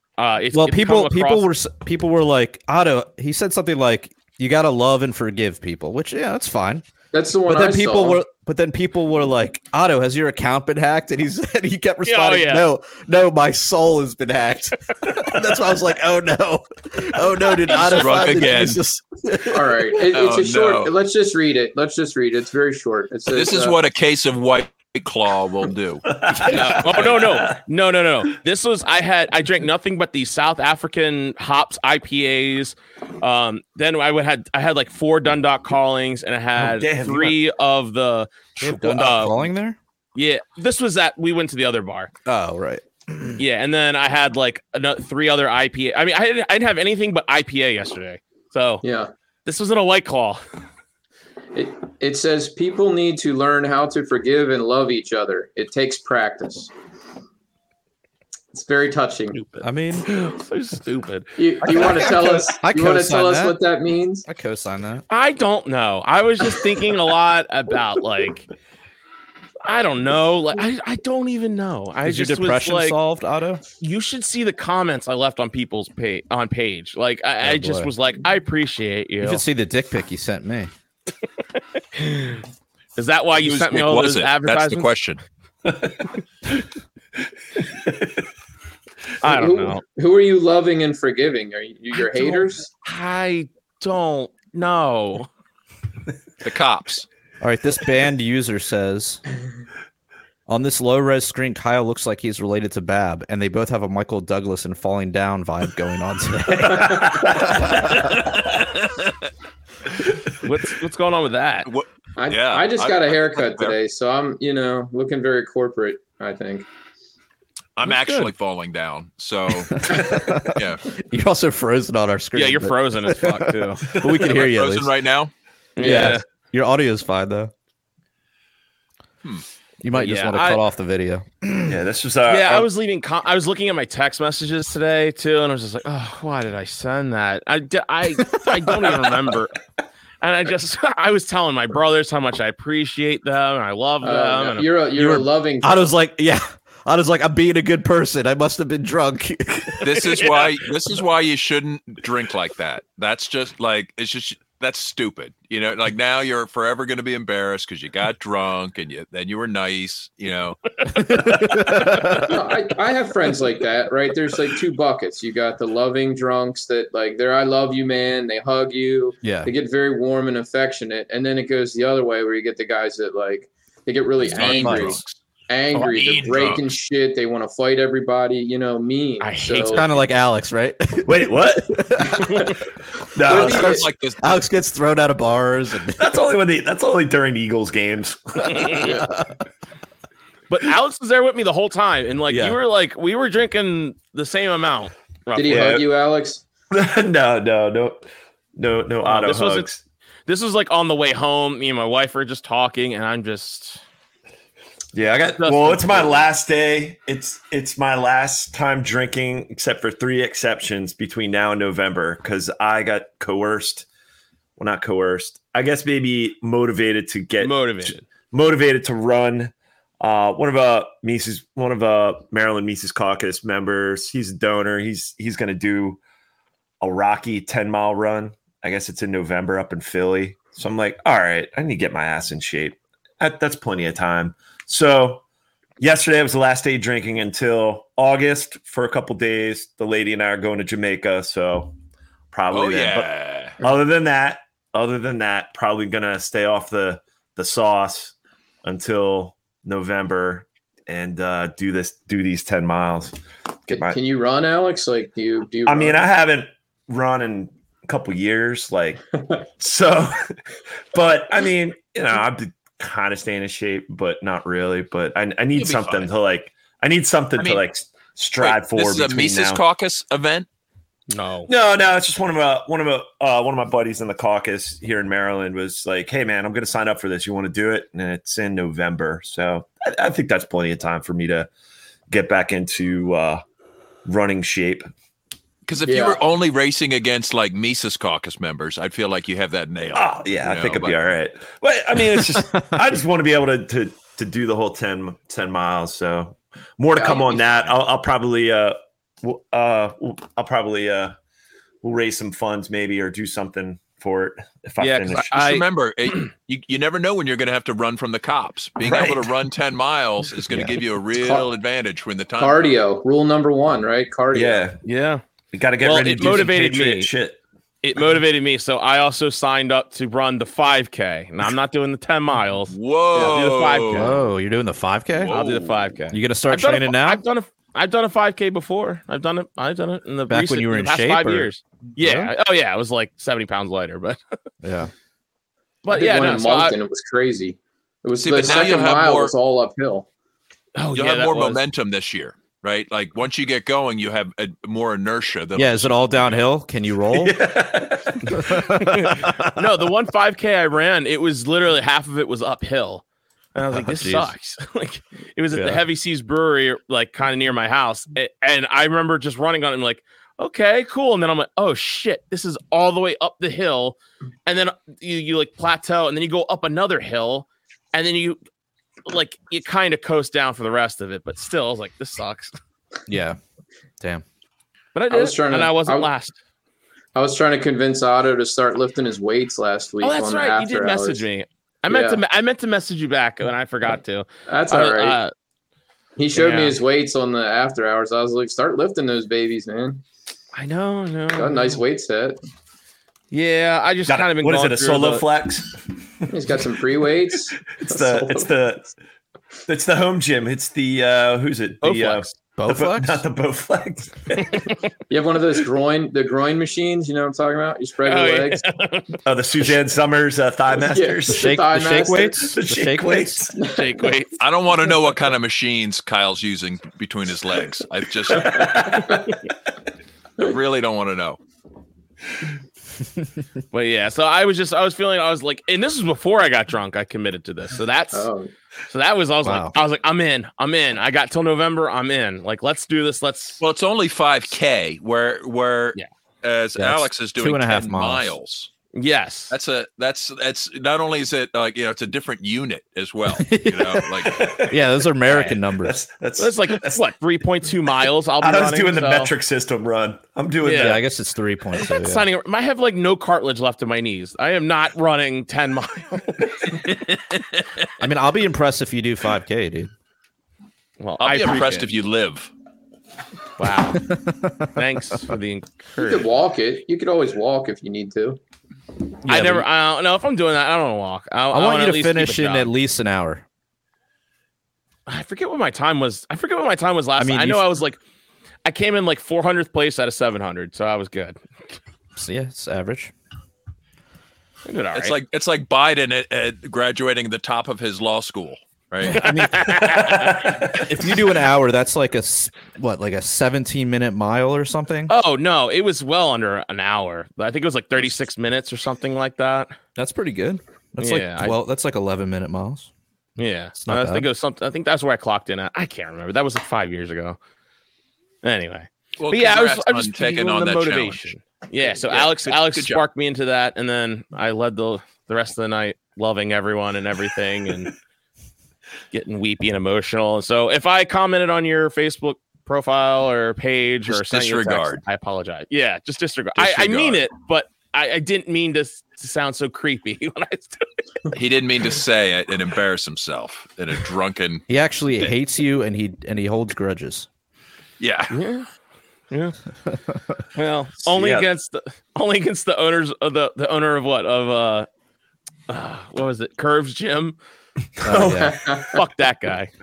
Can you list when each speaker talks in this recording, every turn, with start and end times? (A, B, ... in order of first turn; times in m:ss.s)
0:00.2-0:01.5 A
0:00.5-0:06.8 B
0:07.1-0:08.2 C
0:07.4-0:19.8 B
0:12.0-0:12.7 A
0:17.7-0:18.8 D
0:19.5-0:23.8 C
0:20.1-0:20.9 D
0:23.3-0:26.1 D
0:26.1-0:27.6 E
0:26.4-0:39.5 A
0:26.7-0:27.0 D
0:36.6-0:37.4 E
0:38.6-0:39.8 B
0:40.1-0:42.1 A
0:42.2-0:43.4 B
0:43.4-0:48.8 A
0:48.8-0:49.1 C
0:49.4-0:50.4 A
0:51.5-0:56.7 C
0:58.5-0:59.4 C
0:59.3-1:01.3 A
0:59.6-1:00.1 B
1:01.4-1:04.2 C
1:01.6-1:03.6 B
1:04.2-1:05.0 B
1:05.1-1:08.5 A
1:09.6-1:13.0 A
1:12.0-1:13.6 B
1:13.8-1:19.4 A
1:17.4-1:17.9 B
1:19.2-1:20.7 B
1:21.9-1:22.4 A
1:23.0-1:24.9 A
1:23.4-1:25.2 D
1:25.6-1:26.0 E
1:27.8-1:28.1 E
1:29.2-1:29.8 A
1:29.2-1:32.7 C
1:32.1-1:35.3 A
1:36.4-1:37.0 D
1:37.4-1:39.2 B
1:40.5-1:47.9 B
1:46.5-1:48.0 E
1:48.1-1:49.1 D
1:50.4-1:51.7 A
1:51.6-1:53.7 D
1:52.2-1:56.6 C
1:57.8-2:00.8 D
1:57.8-1:58.3 A
1:59.7-2:04.9 B
2:02.3-2:03.8 A
2:03.9-2:04.2 E
2:04.2-2:05.3 D
2:05.8-2:06.2 A
2:05.8-2:07.5 B
2:09.8-2:11.7 B
2:09.9-2:10.6 A
2:11.6-2:12.7 E
2:12.2-2:19.6 A
2:20.2-2:24.7 A
2:24.0-2:25.9 C
2:24.9-2:29.9 B
2:29.8-2:40.6 D
2:40.9-2:42.3 B
2:41.2-2:41.8 A
2:42.3-2:59.8 C
2:49.2-2:49.5 B
2:54.2-2:55.2 D
2:54.3-2:55.0 B
2:55.7-2:56.6 A
2:55.7-2:56.6 D
2:59.2-3:00.1 A
2:59.7-3:02.6 B
3:01.0-3:02.4 E
3:03.1-3:03.8 E
3:03.2-3:04.4 D
3:03.3-3:03.8 C
3:03.4-3:06.1 B
3:06.0-3:09.0 E
3:10.5-3:15.6 A
3:12.3-3:12.6 B
3:15.3-3:16.4 C
3:15.5-3:15.8 E
3:16.7-3:19.8 E
3:19.0-3:19.7 A
3:20.3-3:23.8 A
3:24.9-3:33.9 E
3:25.4-3:26.2 A
3:34.6-3:46.0 E
3:37.4-3:38.1 A
3:46.8-3:55.2 E
3:55.8-4:01.7 E
4:02.3-4:13.2 E
4:02.5-4:03.6 D
4:13.7-4:14.0 E
4:13.7-4:16.0 C
4:15.6-4:19.0 E
4:19.6-4:20.4 E
4:20.9-4:29.6 E
4:25.6-4:26.1 D
4:27.4-4:27.6 D
4:28.4-4:30.5 D
4:31.1-4:31.5 A
4:31.5-4:41.5 E
4:42.1-4:43.4 E
4:44.0-4:44.9 E
4:45.6-4:50.9 D
4:45.8-4:46.2 C
4:49.9-5:01.2 E
4:57.0-4:57.4 A
5:01.8-5:05.3 E
5:04.8-5:06.3 A
5:05.2-5:12.7 D
5:08.8-5:09.3 E
5:10.5-5:10.8 B
5:11.2-5:11.4 C
5:12.4-5:14.7 C
5:14.3-5:14.8 E
5:14.8-5:15.2 A
5:15.5-5:17.4 E
5:15.8-5:17.1 A
5:17.8-5:24.3 A
5:22.7-5:24.1 D
5:23.9-5:25.4 B
5:25.2-5:25.8 D
5:25.3-5:34.2 A
5:26.1-5:27.2 B
5:30.3-5:32.3 B
5:34.6-5:34.9 B
5:35.8-5:36.8 A
5:35.9-5:40.1 C
5:38.2-5:39.3 D
5:40.7-5:41.6 A
5:40.9-5:46.4 D
5:45.6-5:47.4 B
5:47.1-5:48.4 E
5:48.3-5:49.2 B
5:48.8-5:53.0 A
5:53.5-6:08.4 A
5:53.6-5:54.3 B
5:55.5-5:55.8 B
6:09.0-6:12.6 A
6:13.1-6:13.4 B
6:14.9-6:16.3 A
6:15.1-6:16.1 C
6:17.1-6:21.2 C
6:20.0-6:25.3 A
6:21.9-6:22.2 C
6:24.5-6:25.2 C
6:26.2-6:30.0 C
6:26.4-6:26.8 A
6:30.5-6:31.8 A
6:31.3-6:32.4 C
6:33.3-6:35.2 A
6:34.1-6:36.6 E
6:36.3-6:38.5 C
6:37.7-6:38.9 E
6:39.7-6:44.6 E
6:41.8-6:42.3 A
6:42.6-6:43.2 B
6:45.1-6:48.6 C
6:48.0-6:49.2 A
6:49.2-6:51.6 E
6:50.8-6:52.5 C
6:51.3-6:53.5 B
6:52.5-6:53.6 E
6:53.6-6:54.2 C
6:53.6-6:54.4 A
6:54.4-6:59.0 D
6:58.3-6:59.3 E
7:00.4-7:01.4 D
7:03.7-7:08.3 A
7:08.1-7:08.5 C
7:08.9-7:13.6 A
7:09.4-7:09.7 B
7:13.6-7:18.7 D
7:16.8-7:18.3 B
7:18.9-7:19.5 A
7:19.5-7:24.5 D
7:23.4-7:24.1 B
7:24.2-7:24.8 E
7:24.7-7:26.0 B
7:25.3-7:25.6 A
7:25.8-7:27.1 E
7:26.4-7:29.3 A
7:27.9-7:31.0 E
7:30.6-7:31.0 A
7:30.7-7:32.2 B
7:31.8-7:36.9 A
7:38.0-7:39.9 B
7:41.0-7:41.9 A
7:41.2-7:42.5 D
7:43.6-7:44.1 A
7:44.0-7:44.8 B
7:44.7-7:46.3 A
7:46.0-7:48.4 C
7:49.2-7:49.7 B
7:49.2-7:52.7 A
7:51.5-7:53.4 B
7:55.1-7:58.0 A
7:57.2-7:57.6 B
7:58.6-8:01.4 A
8:02.2-8:03.1 B
8:04.6-8:05.2 A
8:04.9-8:09.3 D
8:09.0-8:15.1 B
8:09.0-8:10.5 A
8:10.0-8:10.7 E
8:15.1-8:19.8 A
8:20.0-8:22.9 B
8:21.0-8:21.6 A
8:23.4-8:27.4 A
8:23.8-8:24.3 B
8:28.4-8:37.9 A
8:29.2-8:31.3 D
8:31.9-8:33.0 D
8:39.1-8:50.9 A
8:44.1-8:45.0 D
8:46.6-8:47.2 D
8:51.3-8:54.6 D
8:54.7-8:57.3 B
8:58.0-8:58.4 D
8:58.3-8:58.7 A
8:59.3-8:59.6 A
9:00.5-9:04.9 A
9:01.0-9:01.5 E
9:05.7-9:07.4 A
9:08.0-9:08.6 B
9:08.0-9:09.0 C
9:08.9-9:09.7 A